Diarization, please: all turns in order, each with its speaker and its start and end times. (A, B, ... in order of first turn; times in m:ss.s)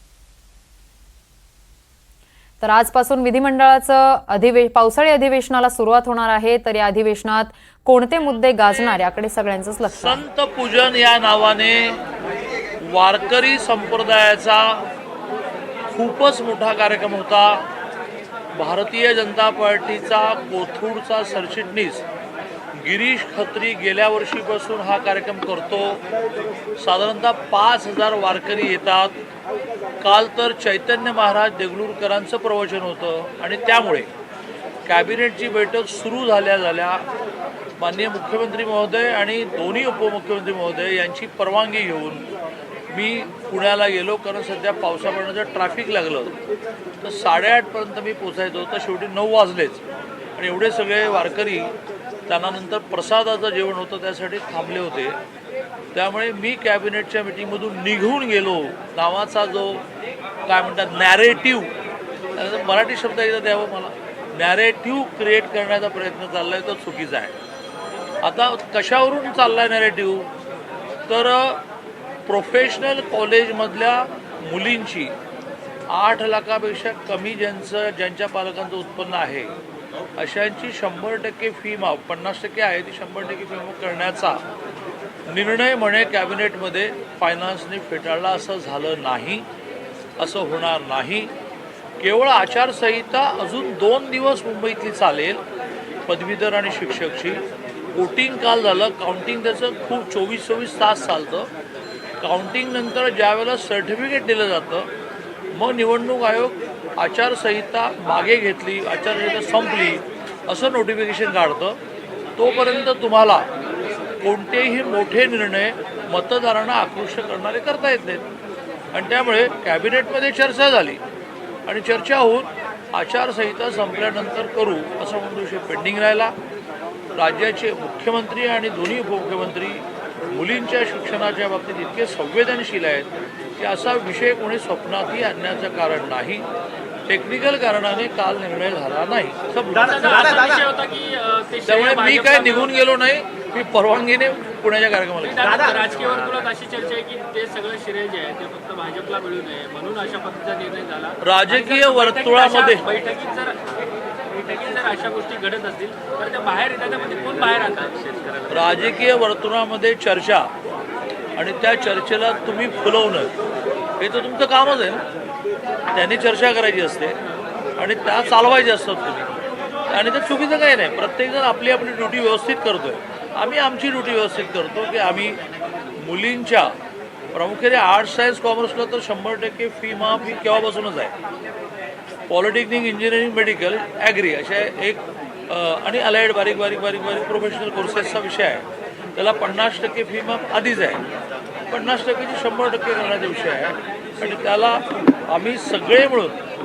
0:02.6-0:10.2 A
0:09.9-0:12.0 B
0:12.8-0:14.8 B
0:15.9-0:17.6 B
0:18.6-0:22.0 B
0:22.8-0:26.0 B
0:26.8-0:29.1 B
0:30.0-0:34.1 B
0:34.8-0:37.1 B
0:37.8-0:42.3 B
0:42.9-0:46.4 B
0:47.0-0:49.8 B
0:50.4-0:51.7 B
0:52.3-0:55.2 B
0:55.9-0:59.8 B
1:00.4-1:01.7 B
1:02.4-1:07.4 B
1:08.2-1:10.3 B
1:11.1-1:11.6 B
1:12.3-1:15.2 B
1:15.9-1:19.5 B
1:20.2-1:24.4 B
1:25.3-1:29.5 B
1:30.2-1:31.3 B
1:32.0-1:35.4 B
1:36.1-1:37.4 B
1:37.9-1:41.5 B
1:42.2-1:44.9 B
1:45.5-1:51.8 B
1:52.4-1:53.5 B
1:54.2-1:58.3 B
1:58.9-2:01.0 B
2:01.7-2:06.4 B
2:07.1-2:16.5 B
2:17.1-2:20.4 B
2:19.8-2:22.7 C
2:21.7-2:25.7 B
2:25.2-2:33.7 C
2:31.2-2:32.9 B
2:34.3-2:38.5 C
2:38.5-2:40.5 B
2:41.4-2:43.3 B
2:44.0-2:45.0 B
2:45.9-2:47.2 B
2:47.8-2:55.4 B
2:56.0-2:56.8 B
2:57.3-3:01.1 B
3:02.3-3:11.0 B
3:11.7-3:16.4 B